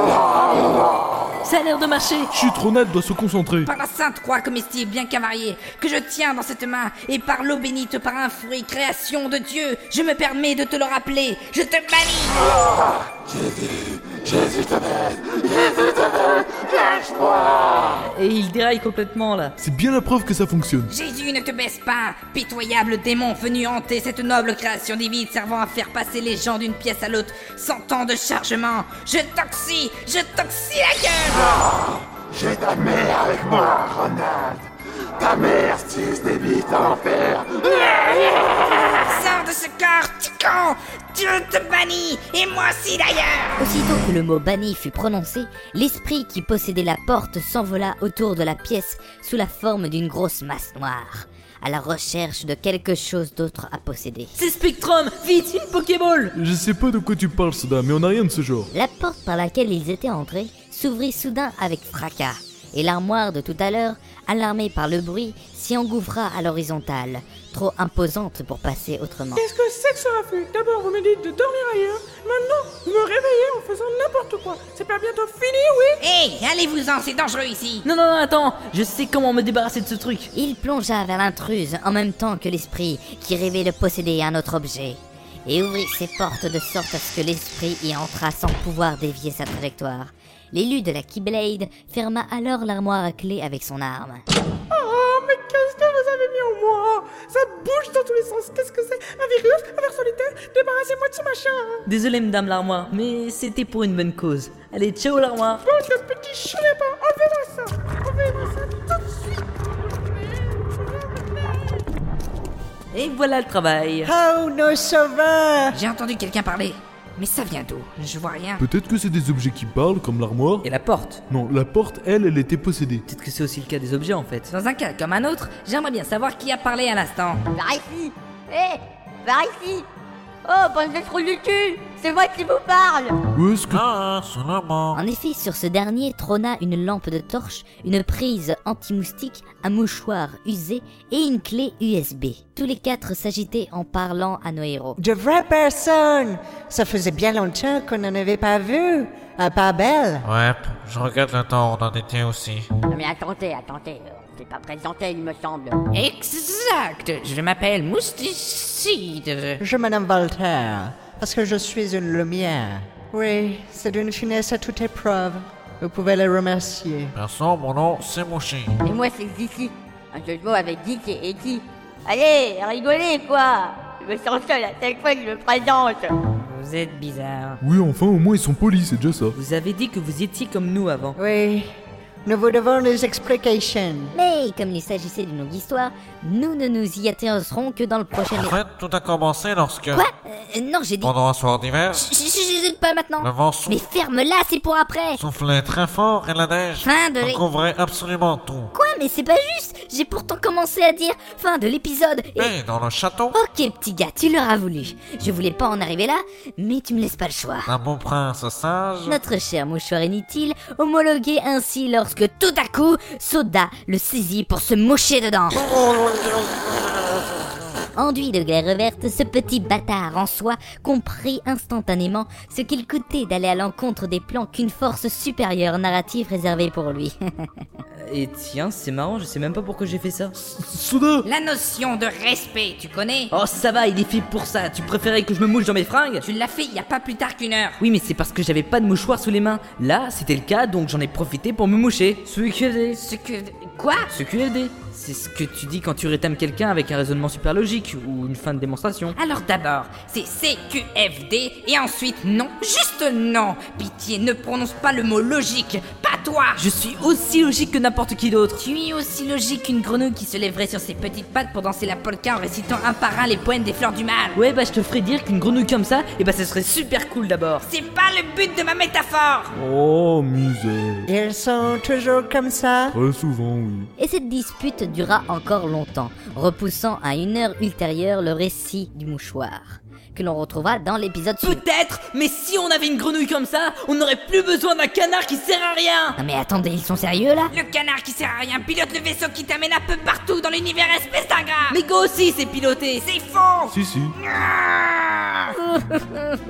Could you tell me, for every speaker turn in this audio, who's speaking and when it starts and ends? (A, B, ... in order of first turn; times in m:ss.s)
0:01.4-0:02.3 A
0:02.3-0:03.7 B
0:03.6-0:12.4 C
0:18.1-0:19.5 A
0:19.6-0:20.9 B
0:20.9-0:31.6 C
0:32.4-0:34.5 D
0:35.2-0:37.5 D
0:37.6-0:43.6 C
0:43.6-0:54.3 E
0:54.4-0:56.3 A
0:56.3-0:58.7 B
0:58.7-1:09.4 E
1:09.4-1:15.9 F
1:16.0-1:17.8 C
1:17.8-1:20.3 A
1:20.3-1:34.2 E
1:34.7-1:41.8 F
1:41.8-1:45.6 A
1:45.6-1:49.4 F
1:50.3-1:51.6 F
1:52.9-1:54.1 A
1:54.0-1:55.8 G
1:55.7-1:58.6 C
1:58.6-2:00.7 B
2:00.6-2:01.2 A
2:01.3-2:03.0 B
2:03.1-2:04.5 A
2:04.5-2:07.4 C
2:07.5-2:09.8 H
2:10.4-2:13.2 H
2:13.3-2:13.8 B
2:13.7-2:15.0 I
2:14.9-2:25.0 E
2:25.0-2:30.3 G
2:30.2-2:32.6 I
2:32.8-2:35.8 H
2:35.9-2:39.6 C
2:39.6-2:47.1 G
2:47.2-2:48.7 I
2:48.8-2:56.2 H
2:56.4-2:57.6 C
2:57.6-2:59.3 B
2:59.3-3:01.2 A
3:01.2-3:01.6 G
3:02.2-3:04.1 G
3:04.1-3:08.6 E
3:08.5-3:10.0 I
3:09.9-3:11.1 E
3:11.0-3:12.0 I
3:11.9-3:15.2 E
3:13.2-3:13.7 I
3:15.2-3:18.7 I
3:16.8-3:17.4 E
3:18.7-3:22.6 E
3:22.4-3:23.3 I
3:23.3-3:27.7 E
3:27.7-3:29.1 I
3:29.0-3:35.6 E
3:38.0-3:47.6 E
3:48.0-3:50.3 A
3:50.4-3:51.2 B
3:51.2-3:53.3 C
3:53.3-3:56.2 A
3:56.2-3:57.8 C
3:57.8-4:03.0 A
4:02.9-4:04.1 C
4:04.1-4:09.2 A
4:09.1-4:16.6 C
4:16.6-4:18.6 A
4:18.6-4:24.4 C
4:24.3-4:27.6 A
4:27.6-4:29.5 C
4:29.5-4:31.0 B
4:31.1-4:32.9 G
4:32.9-4:33.9 B
4:34.0-4:41.6 E
4:41.4-4:46.2 A
4:46.2-4:47.5 E
4:47.5-4:55.6 C
4:51.7-4:52.7 A
4:53.7-4:54.2 B